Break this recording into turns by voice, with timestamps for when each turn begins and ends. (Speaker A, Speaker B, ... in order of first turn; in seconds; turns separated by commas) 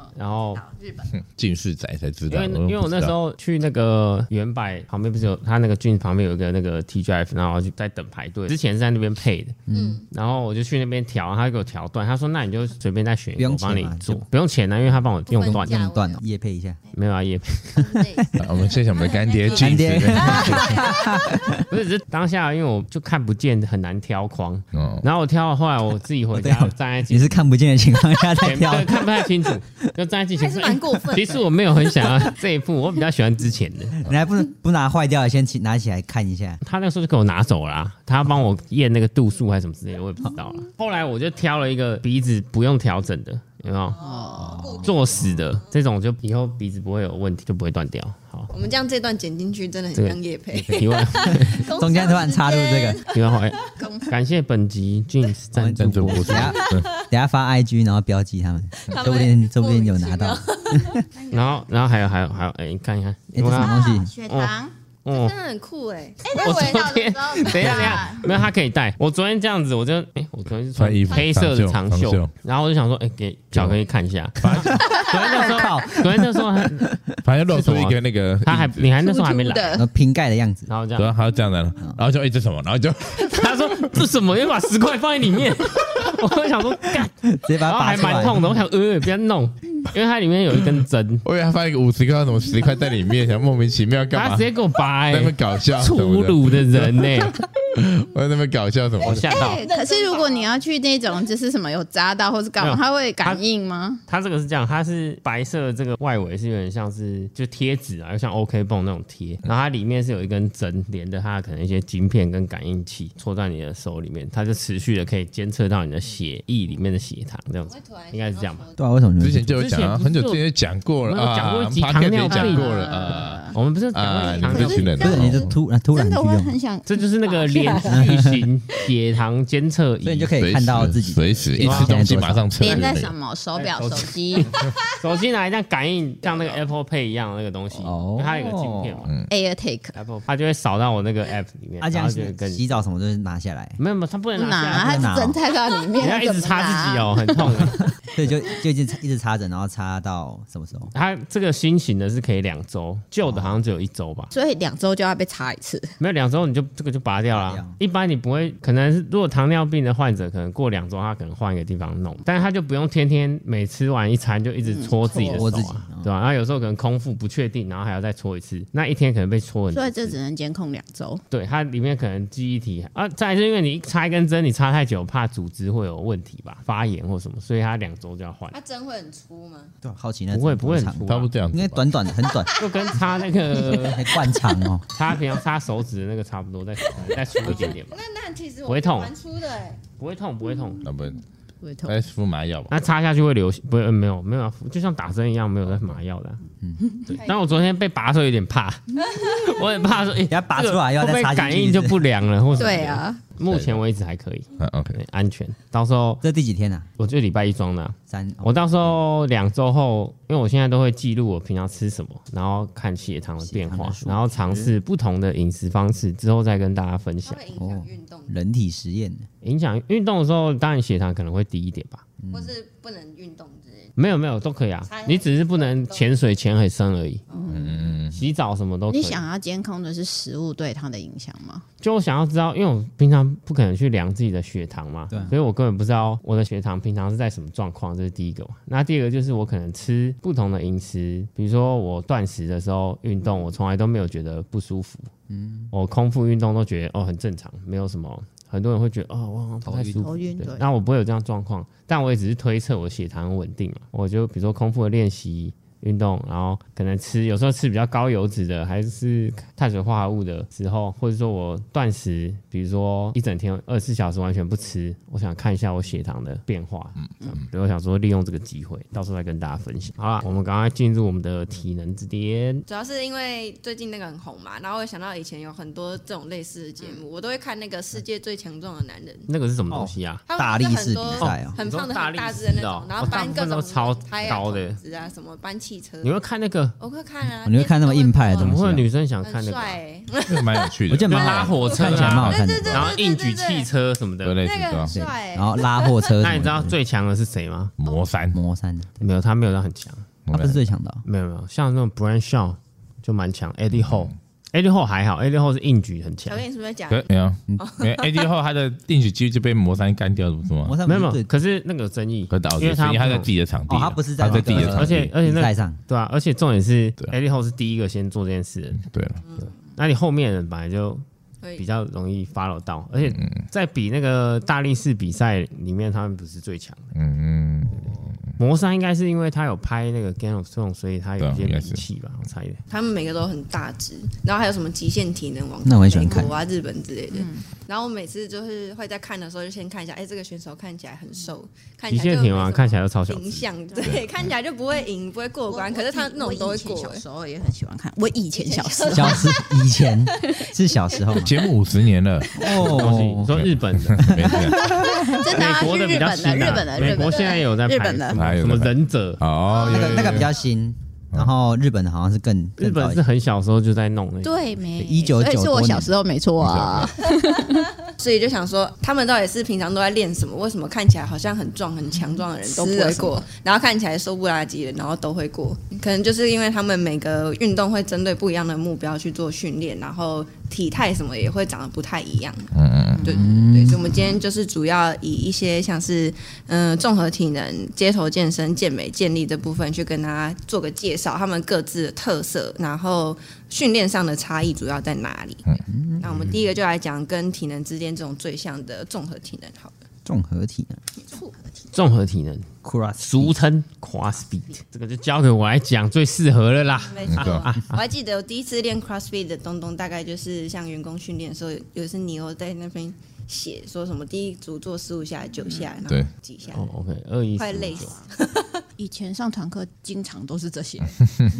Speaker A: 0.1-0.6, Speaker B: 0.7-1.1, Speaker C: 1.1-3.1, Speaker A: 2.3-15.8, Speaker D: 9.7-10.0, Speaker E: 9.7-10.1, Speaker D: 13.3-14.2, Speaker E: 15.3-16.2, Speaker D: 15.4-16.8, Speaker A: 16.9-17.9, Speaker E: 17.7-21.2, Speaker D: 17.9-18.3, Speaker C: 18.4-21.1, Speaker D: 19.5-21.7, Speaker A: 21.7-27.4, Speaker C: 24.7-25.1, Speaker D: 26.3-29.9, Speaker A: 28.3-34.0, Speaker E: 30.3-31.5, Speaker D: 33.9-36.6, Speaker A: 36.6-44.0, Speaker E: 43.9-45.1, Speaker B: 44.0-44.6, Speaker D: 44.3-45.3, Speaker A: 44.8-48.5, Speaker E: 48.5-53.6, Speaker A: 49.9-51.7, Speaker D: 50.5-53.0, Speaker A: 53.1-56.5, Speaker B: 53.8-54.1, Speaker D: 55.5-61.0, Speaker C: 55.8-56.9, Speaker E: 56.3-57.0, Speaker E: 58.8-61.6, Speaker A: 61.3-65.3, Speaker D: 63.3-64.1, Speaker B: 63.5-64.7, Speaker E: 65.1-67.7, Speaker B: 66.2-68.3, Speaker A: 66.4-76.9, Speaker C: 70.7-72.3, Speaker C: 74.4-74.8, Speaker D: 74.5-77.1, Speaker B: 74.9-75.6, Speaker C: 77.2-78.9, Speaker A: 77.5-79.8, Speaker B: 79.0-79.8, Speaker D: 79.7-80.7, Speaker A: 80.7-81.1, Speaker C: 81.0-84.0, Speaker A: 83.2-91.2, Speaker D: 87.2-88.4, Speaker C: 91.2-94.5, Speaker A: 94.1-97.3, Speaker C: 95.1-99.3, Speaker A: 99.0-99.6, Speaker E: 99.0-100.5, Speaker B: 99.6-104.0, Speaker A: 102.6-103.4, Speaker A: 104.1-118.7, Speaker E: 117.6-118.8, Speaker D: 118.8-119.6, Speaker C: 119.2-125.5, Speaker A: 119.5-120.4, Speaker A: 121.0-122.9, Speaker B: 122.2-123.6, Speaker A: 123.5-125.0, Speaker B: 124.2-128.0, Speaker D: 125.0-126.5, Speaker A: 126.8-130.3, Speaker D: 127.8-128.4, Speaker D: 130.0-132.8, Speaker C: 130.4-133.1, Speaker A: 131.6-132.2, Speaker B: 132.6-135.0, Speaker A: 133.5-139.1, Speaker D: 137.7-139.1, Speaker B: 139.3-140.0, Speaker A: 139.9-142.7, Speaker D: 141.8-143.8, Speaker A: 143.8-145.3, Speaker B: 144.3-147.6, Speaker D: 144.7-145.4, Speaker A: 146.0-147.8, Speaker D: 147.5-150.9, Speaker A: 150.9-154.3, Speaker D: 153.2-153.6, Speaker B: 154.3-155.9, Speaker A: 156.0-170.2, Speaker D: 157.3-157.8, Speaker B: 164.6-165.4, Speaker D: 165.2-166.1, Speaker B: 169.7-171.2, Speaker A: 171.3-178.6, Speaker E: 178.5-179.7, Speaker D: 179.8-182.6, Speaker A: 180.3-181.3, Speaker C: 181.0-181.9, Speaker E: 182.6-183.3, Speaker A: 182.6-184.2, Speaker D: 183.6-184.9, Speaker A: 184.9-187.9, Speaker E: 187.4-189.8, Speaker A: 188.7-189.1, Speaker A: 190.0-190.8, Speaker C: 190.8-191.2, Speaker B: 191.6-191.9, Speaker C: 191.8-192.7, Speaker A: 192.7-196.4, Speaker D: 196.6-196.9, Speaker A: 197.1-206.2, Speaker D: 200.3-202.0, Speaker B: 202.6-203.1, Speaker C: 203.4-203.8, Speaker C: 204.6-205.0, Speaker D: 206.2-206.9, Speaker A: 207.0-217.4, Speaker D: 208.1-208.5, Speaker D: 213.4-214.7, Speaker E: 217.2-218.3, Speaker D: 217.6-219.3, Speaker A: 219.4-222.0, Speaker D: 222.2-222.5, Speaker E: 222.3-223.9, Speaker A: 224.0-227.2, Speaker E: 224.8-226.2, Speaker E: 227.3-227.8, Speaker B: 227.3-227.7, Speaker C: 227.5-228.2, Speaker A: 228.1-229.2, Speaker B: 228.9-231.6, Speaker A: 231.8-245.1, Speaker D: 245.3-245.7, Speaker A: 245.7-272.6, Speaker D: 249.6-250.3, Speaker B: 250.0-250.6, Speaker E: 272.7-279.3, Speaker A: 279.3-280.2, Speaker D: 279.7-281.6, Speaker E: 280.3-286.1, Speaker A: 281.2-284.8, Speaker A: 286.0-286.8, Speaker E: 286.8-288.6, Speaker D: 287.4-288.8, Speaker A: 288.4-289.8, Speaker E: 289.2-293.7, Speaker C: 290.2-292.9, Speaker D: 290.9-292.8, Speaker A: 291.1-294.4, Speaker C: 294.2-294.9, Speaker E: 294.4-296.2, Speaker D: 294.9-296.8, Speaker A: 296.2-297.7, Speaker C: 297.8-298.4, Speaker D: 298.3-299.0, Speaker A: 299.0-300.1, Speaker C: 300.2-300.6, Speaker D: 300.3-301.0, Speaker A: 301.0-306.4, Speaker C: 303.8-304.1, Speaker E: 306.2-308.3, Speaker C: 306.9-310.8, Speaker D: 310.6-311.3, Speaker A: 310.8-313.3, Speaker C: 312.3-315.1, Speaker D: 313.7-315.8, Speaker A: 314.2-318.8, Speaker C: 318.8-319.2, Speaker E: 319.2-319.6, Speaker A: 319.4-321.0, Speaker A: 321.6-326.9, Speaker C: 323.1-323.4, Speaker C: 326.9-328.1, Speaker A: 328.4-332.6, Speaker C: 331.2-331.8, Speaker E: 332.7-347.0, Speaker D: 335.6-336.3, Speaker B: 337.1-337.4, Speaker A: 341.9-343.5, Speaker B: 343.7-344.0, Speaker B: 345.5-349.4, Speaker E: 348.3-350.4, Speaker D: 348.9-351.3, Speaker C: 351.2-352.4, Speaker D: 352.3-353.4, Speaker A: 352.6-354.4, Speaker C: 353.3-354.7, Speaker D: 353.9-355.2, Speaker B: 354.4-358.2, Speaker A: 355.2-360.3, Speaker C: 358.1-360.3, Speaker D: 359.6-363.0, Speaker A: 362.6-364.8, Speaker B: 364.2-367.8, Speaker D: 364.8-365.9, Speaker C: 366.4-367.0, Speaker E: 367.9-395.5, Speaker B: 372.0-373.2, Speaker C: 382.5-383.1, Speaker B: 382.9-383.3, Speaker D: 383.1-383.8, Speaker D: 395.6-396.3, Speaker E: 396.0-399.8, Speaker D: 400.0-400.8, Speaker E: 401.1-401.3, Speaker A: 401.7-407.7, Speaker D: 402.6-403.3, Speaker E: 406.9-416.7, Speaker C: 407.1-407.5, Speaker A: 416.5-417.9, Speaker E: 417.3-418.6, Speaker B: 417.7-418.0, Speaker B: 418.8-420.9